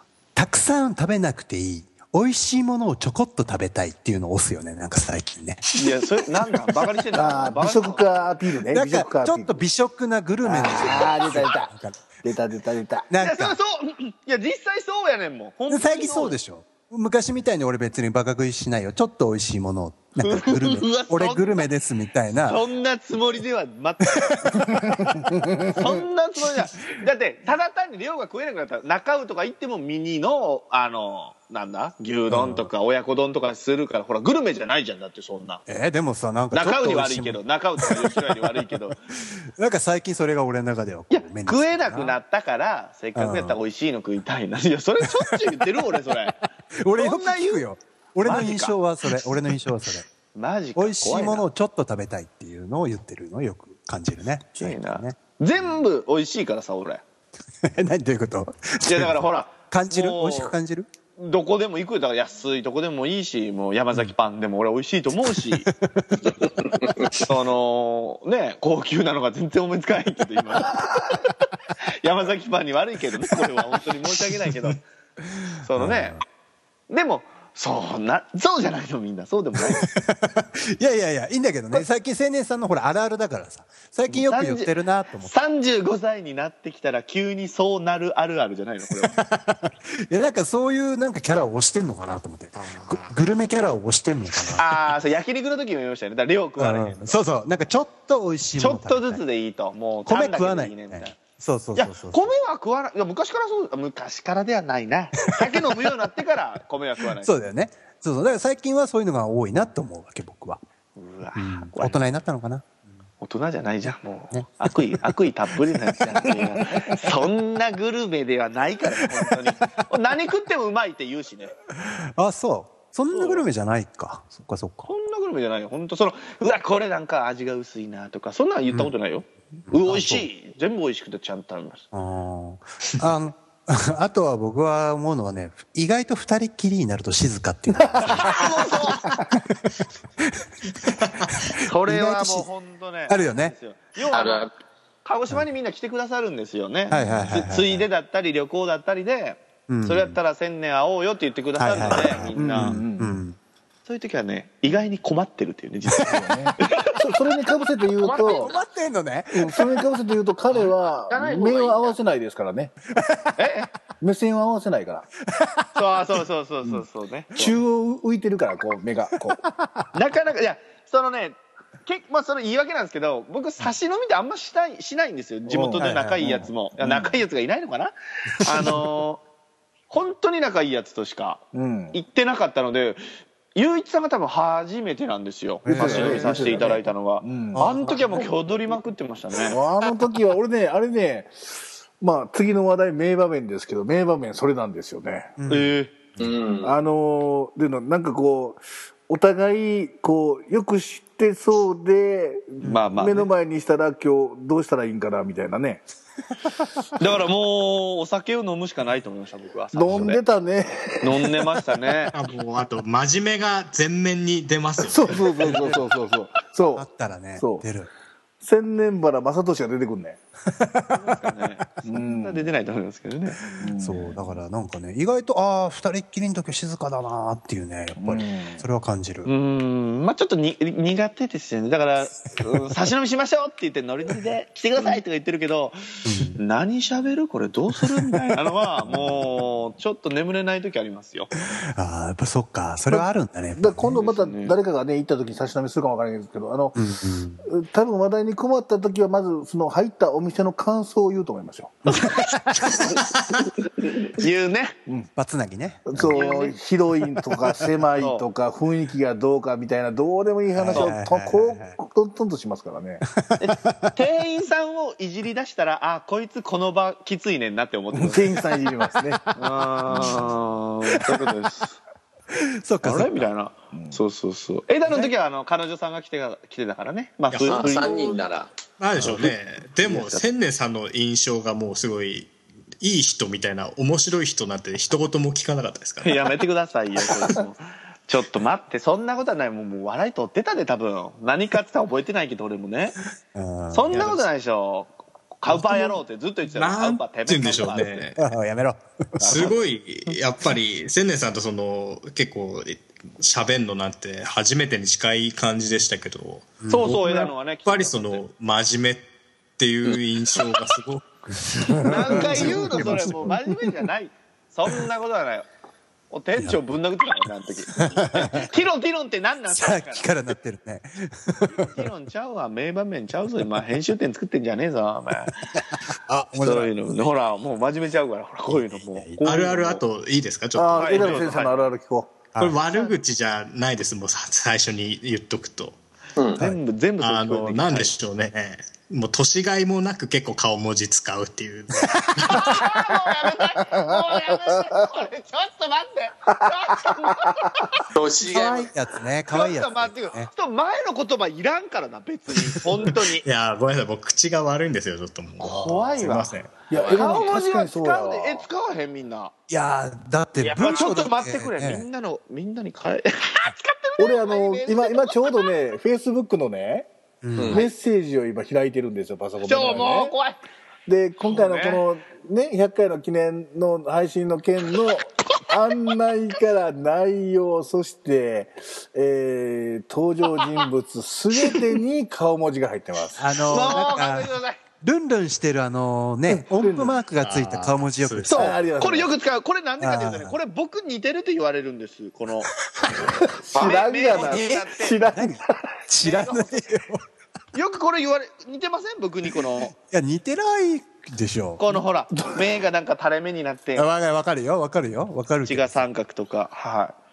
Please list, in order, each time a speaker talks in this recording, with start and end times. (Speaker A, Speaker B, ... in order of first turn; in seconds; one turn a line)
Speaker A: 0.4-5.7
Speaker B: 5.8-8.4
Speaker C: 7.1-9.7
Speaker A: 8.7-12.2
Speaker C: 10.4-13.1
Speaker A: 13.1-13.6
Speaker B: 13.2-16.4
Speaker A: 15.7-22.6
Speaker B: 20.2-21.7
Speaker B: 22.5-24.7
Speaker A: 24.5-25.3
Speaker C: 25.4-25.8
Speaker B: 25.7-35.6
Speaker A: 32.3-32.7
Speaker A: 35.7-42.2
Speaker B: 36.5-39.0
Speaker B: 41.1-46.4
Speaker A: 43.1-43.6
Speaker A: 45.1-50.0
Speaker B: 47.0-47.7
Speaker B: 48.2-48.8
Speaker B: 50.3-51.5
Speaker A: 50.8-55.8
Speaker B: 54.5-57.0
Speaker A: 57.6-60.9
Speaker B: 58.8-60.5
Speaker B: 61.2-65.7
Speaker A: 65.2-66.4
Speaker D: 66.4-67.1
Speaker B: 67.1-71.3
Speaker B: 72.0-74.8
Speaker A: 75.2-76.2
Speaker B: 75.6-76.2
Speaker B: 76.9-79.9
Speaker A: 79.7-85.3
Speaker B: 84.1-89.2
Speaker A: 88.9-95.0
Speaker B: 94.6-97.2
Speaker A: 96.6-99.2
Speaker B: 98.6-101.2
Speaker A: 100.1-102.3
Speaker B: 101.8-107.3
Speaker A: 105.3-105.9
Speaker A: 107.2-110.6
Speaker B: 111.0-112.0
Speaker A: 111.3-112.8
Speaker B: 113.2-121.5
Speaker A: 114.3-115.1
Speaker A: 115.7-116.8
Speaker A: 119.2-119.5
Speaker A: 121.8-124.9
Speaker B: 123.1-123.5
Speaker B: 124.9-131.8
Speaker A: 128.7-128.9
Speaker A: 129.7-130.3
Speaker A: 131.9-138.7
Speaker C: 138.0-138.4
Speaker B: 138.1-139.1
Speaker A: 140.2-142.5
Speaker B: 141.6-144.5
Speaker A: 143.1-143.6
Speaker D: 144.1-144.5
Speaker B: 145.0-152.8
Speaker A: 146.9-147.9
Speaker A: 149.7-150.2
Speaker A: 151.6-153.4
Speaker C: 151.9-153.2
Speaker B: 153.9-157.1
Speaker C: 156.0-158.5
Speaker A: 158.0-159.9
Speaker B: 158.0-158.4
Speaker C: 159.3-162.7
Speaker D: 160.9-162.0
Speaker A: 163.0-163.4
Speaker B: 163.4-163.7
Speaker C: 164.0-165.1
Speaker A: 165.3-165.7
Speaker B: 165.8-167.6
Speaker C: 167.4-169.4
Speaker A: 169.3-169.9
Speaker B: 169.9-179.2
Speaker C: 175.5-176.4
Speaker A: 175.8-177.1
Speaker A: 178.3-178.8
Speaker B: 179.9-183.0
Speaker C: 181.5-181.9
Speaker B: 183.5-189.6
Speaker A: 185.7-186.8
Speaker C: 185.7-187.7
Speaker A: 187.5-188.3
Speaker C: 189.5-191.3
Speaker C: 192.0-195.3
Speaker A: 195.4-196.4
Speaker B: 195.5-195.9
Speaker D: 196.2-196.7
Speaker C: 196.6-205.8
Speaker A: 202.6-202.9
Speaker B: 202.6-203.3
Speaker B: 207.0-210.2
Speaker C: 209.7-211.6
Speaker B: 211.0-212.2
Speaker E: 212.1-215.8
Speaker C: 214.8-217.7
Speaker A: 215.5-215.8
Speaker A: 216.8-217.9
Speaker C: 218.4-220.2
Speaker A: 220.5-221.3
Speaker B: 220.9-223.4
Speaker C: 221.8-222.5
Speaker C: 223.6-224.3
Speaker A: 223.8-229.3
Speaker C: 228.0-228.6
Speaker B: 229.2-241.3
Speaker A: 236.1-236.4
Speaker A: 237.7-238.2
Speaker A: 238.8-239.3
Speaker A: 241.3-244.0
Speaker C: 242.9-246.8
Speaker B: 243.9-244.6
Speaker A: 246.8-247.5
Speaker C: 247.5-251.8
Speaker A: 251.9-253.1
Speaker D: 253.8-254.1
Speaker B: 254.2-254.8
Speaker A: 255.2-256.3
Speaker C: 255.9-263.0
Speaker B: 256.1-256.6
Speaker A: 257.3-257.6
Speaker B: 258.0-258.3
Speaker A: 260.6-261.8
Speaker A: 263.1-263.9
Speaker B: 263.4-268.4
Speaker C: 267.9-269.2
Speaker A: 268.9-271.3
Speaker B: 269.4-271.8
Speaker C: 270.0-270.3
Speaker A: 272.3-273.3
Speaker B: 272.8-278.2
Speaker C: 273.7-274.0
Speaker E: 277.3-277.8
Speaker D: 277.5-278.5
Speaker E: 278.8-286.3
Speaker B: 279.0-280.2
Speaker B: 286.0-293.0
Speaker A: 293.3-294.2
Speaker B: 293.7-298.1
Speaker E: 296.6-298.2
Speaker A: 298.2-299.5
Speaker B: 299.2-299.6
Speaker E: 299.2-306.6
Speaker A: 306.6-307.3
Speaker B: 306.7-308.2
Speaker E: 307.6-309.1
Speaker E: 309.6-311.1
Speaker D: 309.9-310.6
Speaker A: 311.3-313.4
Speaker B: 311.8-315.5
Speaker C: 312.4-313.2
Speaker B: 316.1-320.1
Speaker A: 317.8-318.5
Speaker A: 319.5-321.9
Speaker B: 321.6-325.6
Speaker A: 325.5-326.8
Speaker B: 326.3-329.8
Speaker A: 328.5-329.2
Speaker E: 329.2-331.4
Speaker C: 330.6-332.2
Speaker B: 330.8-331.7
Speaker A: 332.3-332.6
Speaker E: 332.4-335.8
Speaker D: 336.2-336.4
Speaker B: 336.4-337.9
Speaker E: 337.0-342.5
Speaker B: 342.2-347.8
Speaker C: 343.7-344.6
Speaker C: 346.4-347.5
Speaker D: 347.9-348.7
Speaker A: 348.3-350.3
Speaker B: 349.3-353.2
Speaker E: 353.2-356.5
Speaker B: 355.4-359.3
Speaker C: 356.7-358.5
Speaker D: 356.7-357.4
Speaker A: 359.5-361.9
Speaker B: 360.4-365.5
Speaker C: 364.0-366.9
Speaker A: 367.2-367.6
Speaker D: 367.4-367.7
Speaker C: 367.5-370.1
Speaker B: 369.4-370.4
Speaker C: 370.9-383.8
Speaker B: 371.2-371.8
Speaker A: 383.2-388.6
Speaker B: 383.5-384.6
Speaker C: 386.3-386.9
Speaker E: 387.2-388.3
Speaker B: 388.3-392.5
Speaker C: 388.3-389.1
Speaker A: 389.8-390.4
Speaker C: 392.9-395.6
Speaker B: 393.5-395.0
Speaker D: 393.5-393.8
Speaker A: 395.1-397.0
Speaker B: 396.0-396.7
Speaker B: 397.5-399.7
Speaker A: 399.8-401.8
Speaker B: 401.6-403.9
Speaker A: 403.8-405.8
Speaker B: 405.4-407.0